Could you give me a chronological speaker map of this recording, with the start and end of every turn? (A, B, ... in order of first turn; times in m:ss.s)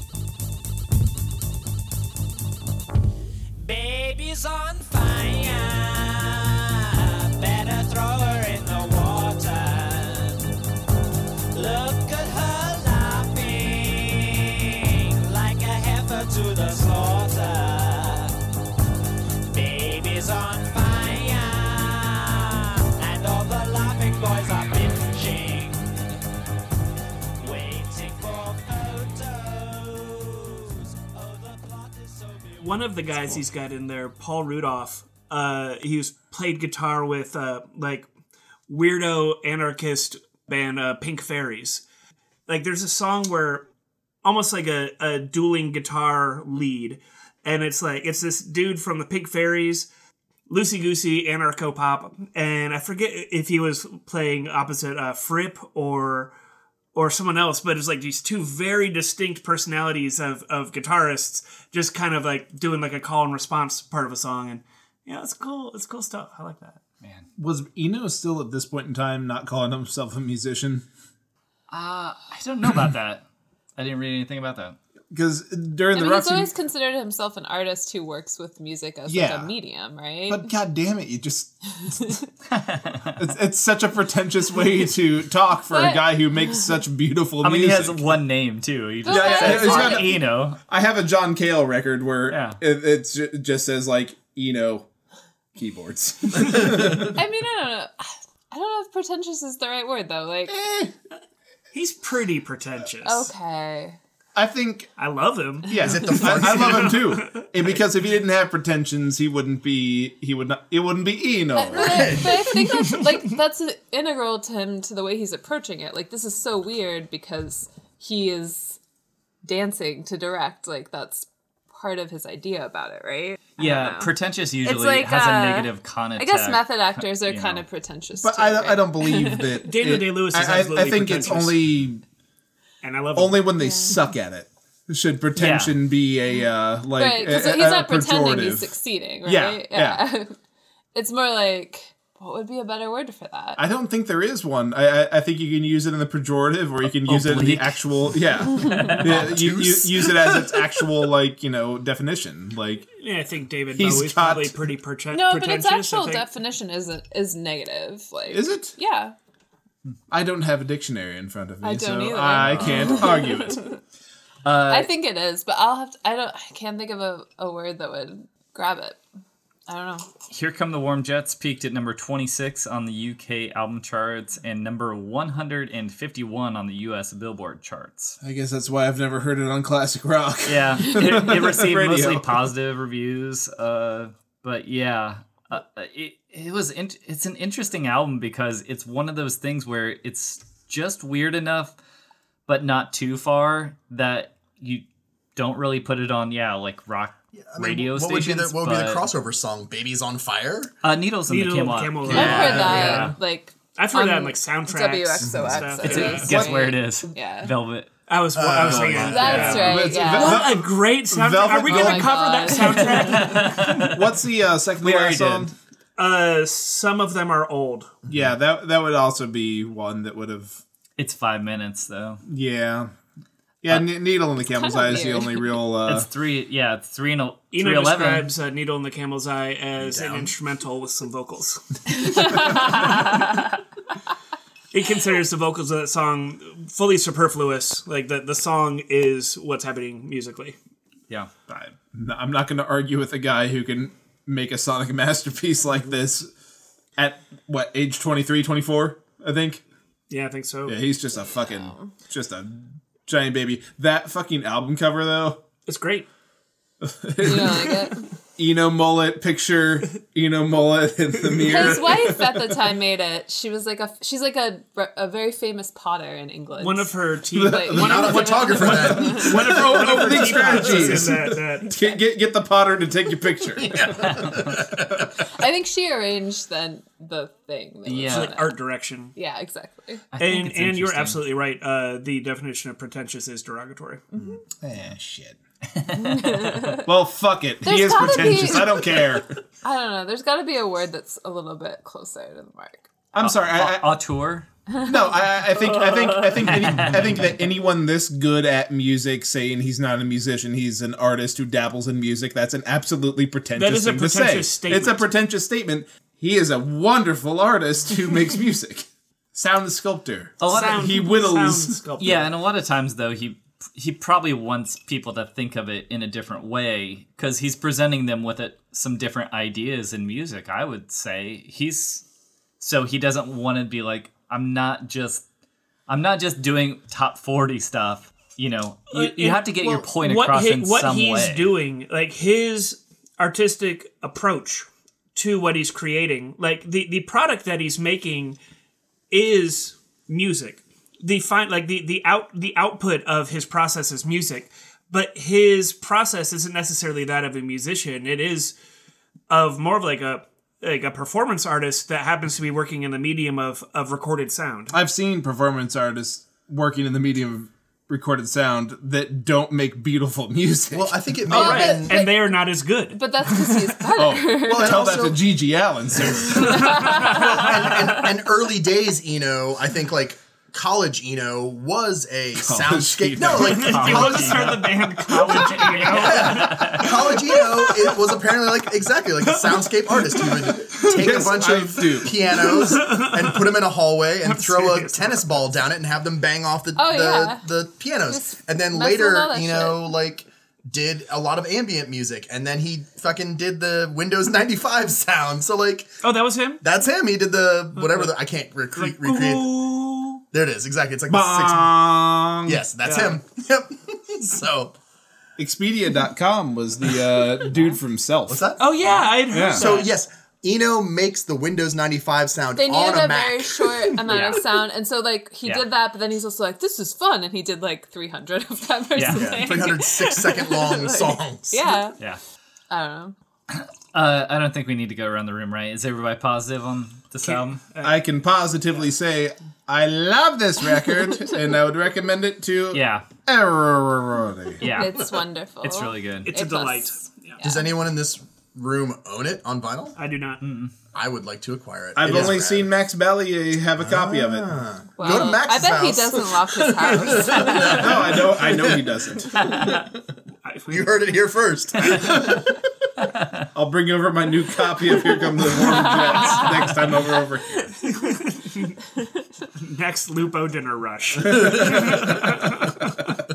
0:03.6-0:10.5 A
0:11.5-0:18.4 A
0:19.5-0:25.9 A
0:27.4-0:33.0 A
0:32.6-0:38.1 B
0:38.7-0:41.8 B
0:42.5-0:43.6 B
0:44.2-0:49.9 B
0:50.5-0:56.3 B
0:56.9-1:06.8 B
1:07.0-1:07.3 C
1:07.4-1:10.8 D
1:11.7-1:13.2 C
1:13.8-1:14.8 C
1:15.1-1:16.5 D
1:15.9-1:20.5 E
1:19.1-1:19.5 D
1:20.3-1:22.1 D
1:21.9-1:22.2 E
1:22.5-1:23.2 C
1:23.2-1:28.0 D
1:25.7-1:26.6 E
1:27.4-1:30.6 C
1:29.1-1:30.1 E
1:29.1-1:34.9 D
1:32.3-1:32.6 C
1:35.6-1:37.2 D
1:37.2-1:40.6 E
1:40.5-1:40.9 D
1:41.7-1:43.3 B
1:43.0-1:44.0 E
1:44.4-1:44.9 D
1:45.0-1:47.8 B
1:45.7-1:52.2 D
1:45.8-1:47.0 F
1:51.6-1:58.8 E
1:51.7-1:52.6 F
1:52.7-1:53.2 B
1:59.4-2:04.1 E
2:03.6-2:07.6 C
2:04.6-2:09.6 E
2:08.2-2:12.0 D
2:09.7-2:11.6 B
2:12.8-2:13.4 B
2:13.2-2:18.7 D
2:13.6-2:14.0 E
2:15.4-2:15.8 C
2:17.0-2:20.4 E
2:19.2-2:20.0 D
2:21.0-2:23.6 E
2:23.6-2:32.9 D
2:27.1-2:27.8 C
2:28.6-2:29.3 C
2:28.9-2:30.9 F
2:33.0-2:36.2 B
2:33.7-2:34.6 D
2:35.1-2:39.2 E
2:38.3-2:38.7 D
2:40.1-2:43.6 D
2:41.6-2:43.8 E
2:42.3-2:43.1 C
2:44.4-2:44.9 C
2:44.7-2:49.0 E
2:49.7-2:50.1 E
2:50.3-2:58.2 C
2:58.2-3:02.5 D
3:00.5-3:11.7 C
3:12.5-3:14.8 C
3:15.4-3:19.1 C
3:17.4-3:20.7 F
3:20.8-3:23.2 C
3:21.3-3:23.2 B
3:22.0-3:23.2 F
3:22.1-3:27.5 E
3:22.3-3:22.6 D
3:23.8-3:26.5 B
3:25.2-3:26.0 F
3:25.8-3:27.9 C
3:28.1-3:33.8 B
3:28.3-3:29.4 F
3:28.5-3:29.8 C
3:28.9-3:32.2 D
3:29.1-3:30.5 E
3:31.6-3:33.5 E
3:33.0-3:34.0 C
3:33.7-3:35.5 D
3:34.8-3:35.5 C
3:36.0-3:38.0 B
3:38.1-3:40.6 D
3:41.0-3:42.2 C
3:42.3-3:42.9 D
3:43.6-3:46.1 D
3:44.6-3:45.5 E
3:45.9-3:48.3 C
3:47.5-3:53.4 B
3:49.8-3:50.3 F
3:51.9-3:53.5 E
3:54.7-4:00.6 B
4:01.5-4:06.3 D
4:07.0-4:09.6 D
4:10.1-4:10.8 B
4:10.7-4:15.4 D
4:11.2-4:11.9 E
4:15.7-4:16.1 B
4:16.8-4:22.6 D
4:17.2-4:18.1 E
4:21.4-4:29.3 E
4:26.6-4:31.8 B
4:27.3-4:35.1 D
4:27.7-4:31.1 F
4:33.4-4:35.1 F
4:35.2-4:38.5 E
4:37.9-4:38.3 C
4:38.1-4:39.1 B
4:39.2-4:40.0 E
4:40.1-4:41.2 C
4:40.2-4:44.0 B
4:44.1-4:44.4 E
4:44.6-4:45.4 D
4:45.9-4:46.2 C
4:45.9-4:46.9 E
4:46.5-4:49.4 D
4:47.6-4:52.9 E
4:53.1-4:54.0 D
4:53.2-4:54.5 C
4:54.8-5:11.8 D
4:55.6-4:57.3 C
5:03.6-5:05.0 B
5:10.4-5:11.0 C
5:10.4-5:12.3 B
5:12.0-5:22.0 C
5:22.6-5:25.2 C
5:25.9-5:31.5 C
5:28.9-5:38.4 B
5:39.1-5:48.6 B
5:49.3-5:54.8 B
5:54.7-6:01.3 D
6:00.7-6:02.1 F
6:01.3-6:02.4 E
6:01.3-6:03.8 B
6:02.9-6:04.8 E
6:04.0-6:06.8 D
6:04.4-6:05.2 F
6:05.9-6:14.5 F
6:06.3-6:07.4 E
6:06.4-6:08.1 B
6:12.4-6:14.0 D
6:13.2-6:17.0 C
6:13.3-6:17.6 B
6:15.6-6:35.9 F
6:17.4-6:17.9 E
6:19.2-6:20.2 B
6:20.4-6:22.5 D
6:22.5-6:23.6 B
6:24.2-6:25.5 B
6:26.8-6:27.5 E
6:28.1-6:29.9 E
6:36.0-6:36.6 B
6:36.6-6:39.7 F
6:37.8-6:38.1 B
6:38.8-6:40.2 B
6:40.3-6:41.9 F
6:41.1-6:42.6 D
6:42.4-6:44.7 F
6:42.8-6:43.2 B
6:45.4-6:48.5 D
6:48.3-6:54.0 F
6:48.6-6:50.0 B
6:49.3-6:49.7 D
6:52.6-7:02.0 E
6:54.1-6:54.4 C
6:59.0-6:59.4 C
6:59.1-7:01.8 F
7:02.7-7:03.2 E
7:03.5-7:07.6 C
7:07.2-7:08.0 B
7:07.8-7:14.7 D
7:12.7-7:13.1 C
7:14.6-7:15.1 C
7:14.6-7:17.7 E
7:15.6-7:16.3 C
7:16.2-7:17.4 B
7:17.4-7:20.0 F
7:20.0-7:20.4 B
7:20.4-7:20.7 C
7:21.0-7:22.8 F
7:22.0-7:24.5 D
7:23.8-7:29.8 F
7:25.0-7:27.8 E
7:27.6-7:29.4 D
7:29.5-7:29.8 B
7:30.4-7:31.0 B
7:30.7-7:32.6 F
7:31.8-7:32.3 B
7:33.2-7:33.5 C
7:33.5-7:37.8 D
7:35.8-7:36.5 E
7:37.8-7:38.8 B
7:39.6-7:43.1 B
7:41.7-7:42.3 D